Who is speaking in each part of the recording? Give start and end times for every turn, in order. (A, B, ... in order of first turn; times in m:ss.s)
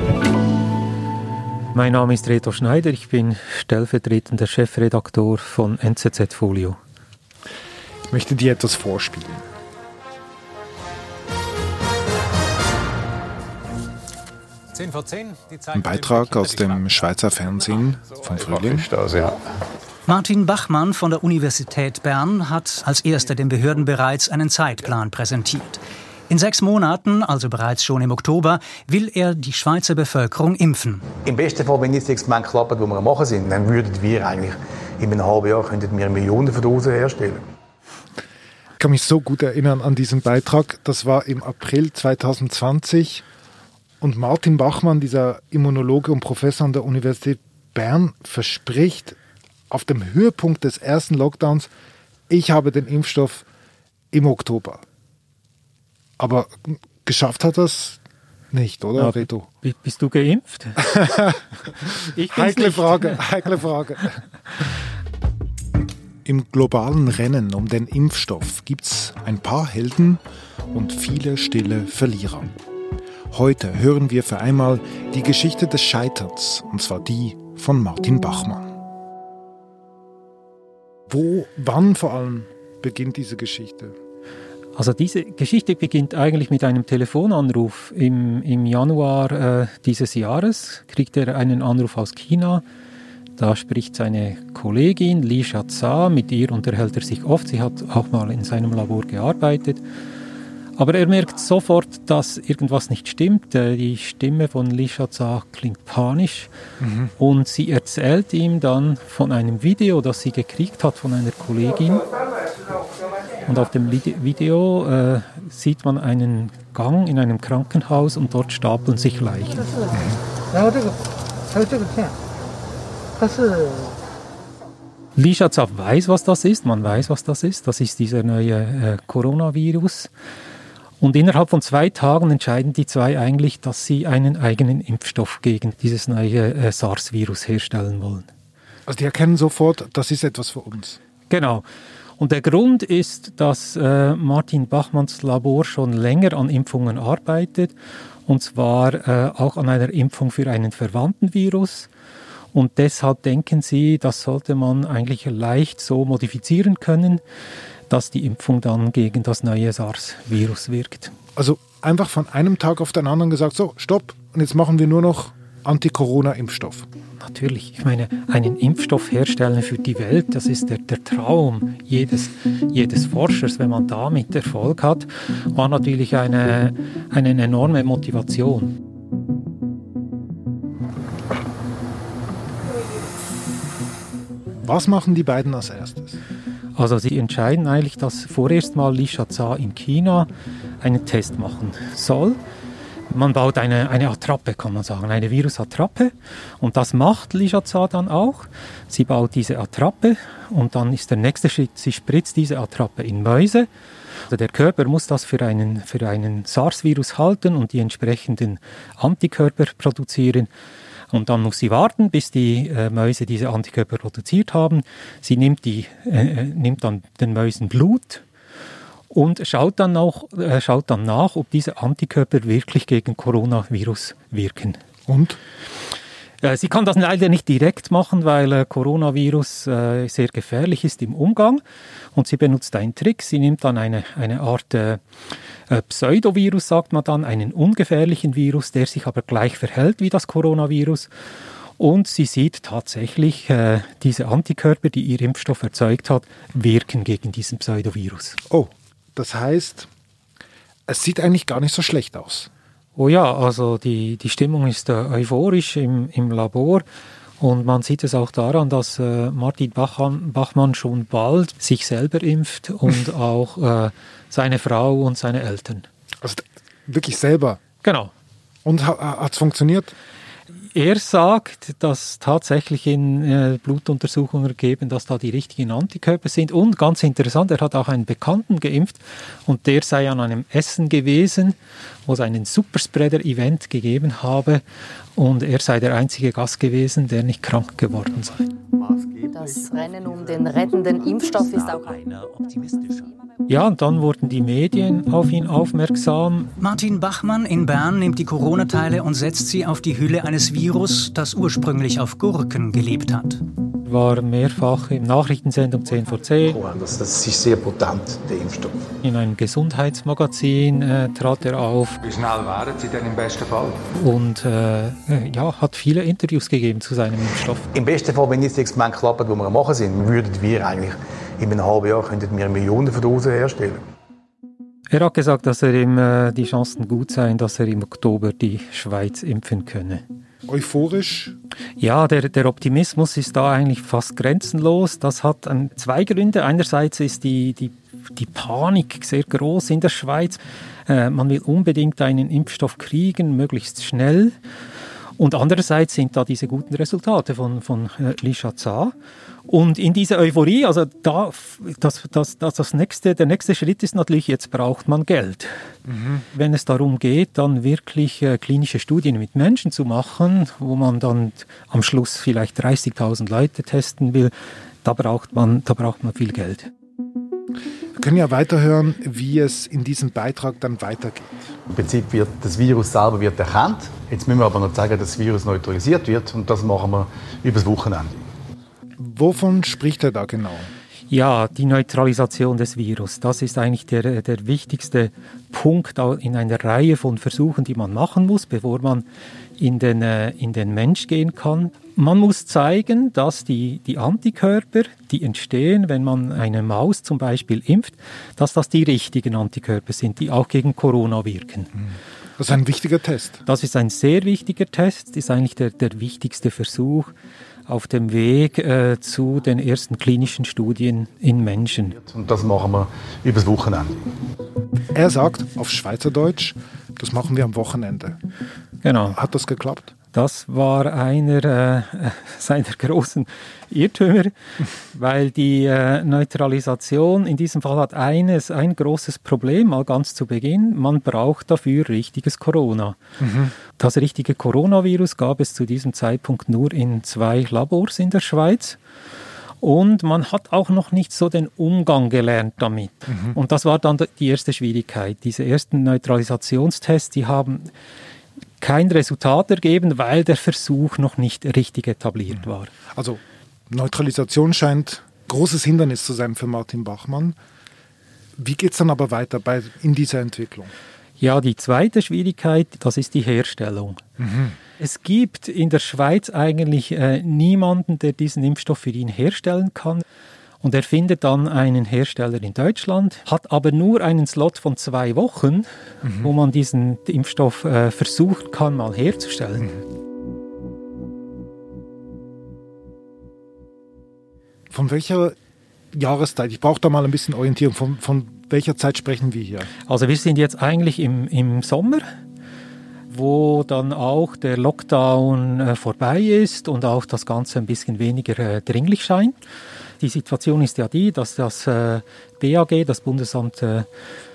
0:01.7-0:06.8 A
0:08.1-0:09.4 B
0:14.8-0:15.4 C
0:15.7-0:18.9 B
0:18.9-0:19.3 D
0:20.1-0:31.1 E
0:31.2-0:37.4 D
0:38.8-0:43.2 B
0:44.0-0:49.2 B
0:49.7-0:51.7 B
0:52.3-0:53.4 B
0:54.1-0:54.8 B
0:56.2-0:58.0 B
0:58.5-0:59.5 B
0:59.0-1:01.3 A
1:01.9-1:03.3 A
1:02.3-1:04.2 B
1:06.2-1:10.2 B
1:10.7-1:12.5 B
1:13.3-1:18.7 B
1:21.1-1:23.9 B
1:24.8-1:32.6 A
1:33.4-1:39.8 A
1:40.8-1:46.5 A
1:46.8-1:47.1 B
1:47.2-1:52.0 A
1:53.4-1:59.8 A
2:00.5-2:00.9 F
2:01.6-2:02.1 F
2:03.2-2:03.7 F
2:05.2-2:10.1 A
2:11.0-2:18.3 A
2:18.9-2:21.0 B
2:21.3-2:21.6 A
2:22.2-2:27.7 A
2:28.2-2:31.9 A
2:32.5-2:37.2 A
2:37.9-2:41.1 A
2:41.4-2:46.9 B
2:47.2-2:58.7 A
3:04.6-3:06.2 B
3:06.8-3:10.3 A
3:10.8-3:12.4 A
3:13.1-3:23.7 A
3:24.3-3:30.5 A
3:31.1-3:38.2 A
3:39.1-3:44.8 A
3:45.1-3:45.4 B
3:46.4-3:51.6 A
3:52.1-3:55.0 A
3:55.7-4:01.1 A
4:01.8-4:08.4 A
4:08.5-4:09.9 B
4:10.9-4:12.5 B
4:13.0-4:16.8 A
4:17.4-4:25.9 A
4:26.2-4:27.6 B
4:27.8-4:28.1 A
4:28.6-4:29.9 B
4:30.7-4:41.6 A
4:42.1-4:44.6 A
4:45.2-4:48.4 A
4:49.2-4:52.0 F
4:53.5-4:56.5 A
4:56.6-5:03.4 E
5:03.8-5:06.6 A
5:06.5-5:08.8 D
5:09.0-5:12.0 A
5:12.0-5:13.8 C
5:13.9-5:17.7 A
5:17.7-5:23.8 D
5:24.9-5:30.0 A
5:30.5-5:31.4 B
5:31.8-5:44.3 A
5:45.2-5:48.9 A
5:49.5-5:55.5 A
5:55.9-5:56.2 B
5:56.3-6:06.7 A
6:08.0-6:11.5 B
6:11.7-6:18.2 D
6:19.0-6:20.7 B
6:21.1-6:29.0 A
6:29.6-6:41.7 A
6:42.4-6:43.4 B
6:43.5-6:47.1 A
6:47.7-6:52.0 A
6:52.0-6:54.0 D
6:54.9-6:58.2 B
6:58.8-6:59.2 A
6:59.1-6:59.9 B
7:00.1-7:04.3 A
7:04.9-7:13.0 A
7:13.2-7:13.5 B
7:13.8-7:18.8 A
7:19.6-7:27.7 A
7:28.6-7:32.7 A
7:32.9-7:37.4 B
7:38.4-7:40.7 B
7:41.2-7:44.0 A
7:44.2-7:44.6 B
7:44.8-7:50.0 A
7:50.6-7:59.7 A
7:56.0-7:56.3 B
8:04.7-8:05.4 B
8:05.9-8:09.7 B
8:09.9-8:12.0 A
8:13.1-8:19.4 A
8:20.0-8:23.9 A